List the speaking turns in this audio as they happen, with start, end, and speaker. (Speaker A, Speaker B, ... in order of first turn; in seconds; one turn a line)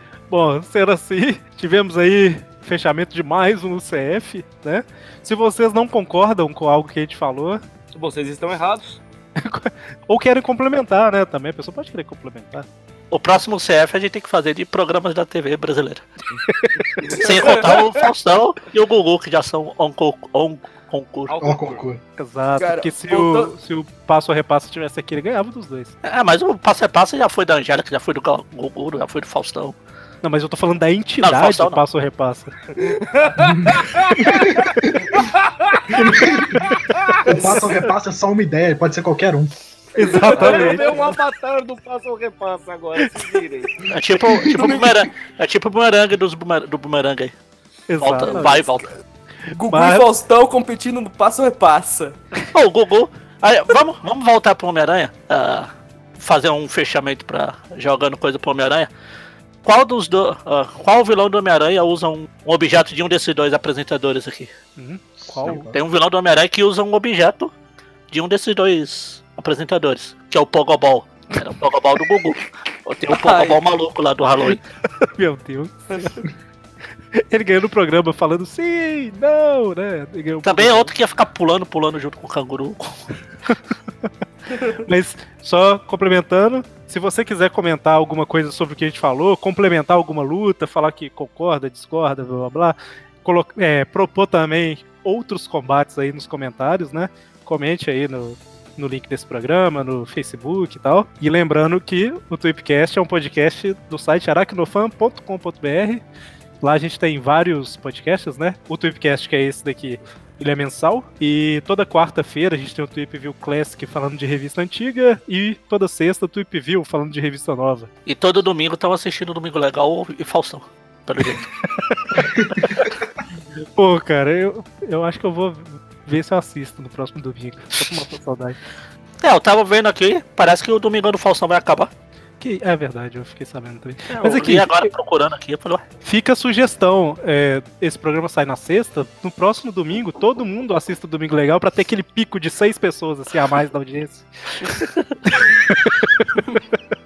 Speaker A: 0.3-7.6
Speaker B: 7.9-9.0
Speaker A: 9.4-12.7
Speaker C: 13.1-16.1
Speaker A: 16.5-17.0
Speaker B: 17.0-17.7
Speaker C: 17.2-21.4
Speaker D: 17.2-17.7
Speaker B: 21.3-21.8
Speaker E: 21.4-22.0
Speaker A: 22.2-25.9
Speaker D: 22.6-23.5
Speaker C: 26.0-29.8
Speaker A: 30.2-32.5
Speaker C: 31.2-31.8
Speaker B: 32.8-34.6
Speaker E: 33.4-34.5
Speaker B: 35.2-36.0
Speaker E: 35.9-36.7
Speaker B: 36.8-37.2
Speaker E: 37.2-39.5
Speaker D: 37.3-37.6
Speaker A: 40.0-41.0
Speaker D: 40.0-41.0
Speaker B: 40.2-43.8
Speaker C: 43.9-47.3
Speaker D: 44.5-45.1
Speaker A: 47.9-48.6
Speaker C: 48.0-48.9
Speaker D: 49.5-52.2
Speaker A: 49.7-50.1
Speaker C: 52.5-58.9
Speaker C: 59.6-64.5
Speaker A: 64.8-65.7
Speaker E: 65.3-65.8
Speaker C: 65.7-67.5
Speaker C: 68.1-74.6
Speaker D: 73.1-73.6
Speaker A: 75.0-75.8
Speaker D: 76.0-76.3
Speaker A: 77.2-80.9
Speaker C: 80.4-83.0
Speaker A: 84.8-106.0
Speaker A: 106.6-117.9
Speaker C: 118.1-121.5
Speaker A: 121.8-122.9
Speaker C: 122.6-122.9
Speaker A: 123.8-128.6
Speaker C: 129.2-131.9
Speaker A: 132.4-134.9
Speaker C: 134.1-135.8
Speaker A: 136.0-144.3
Speaker C: 144.8-145.1
Speaker A: 145.3-146.5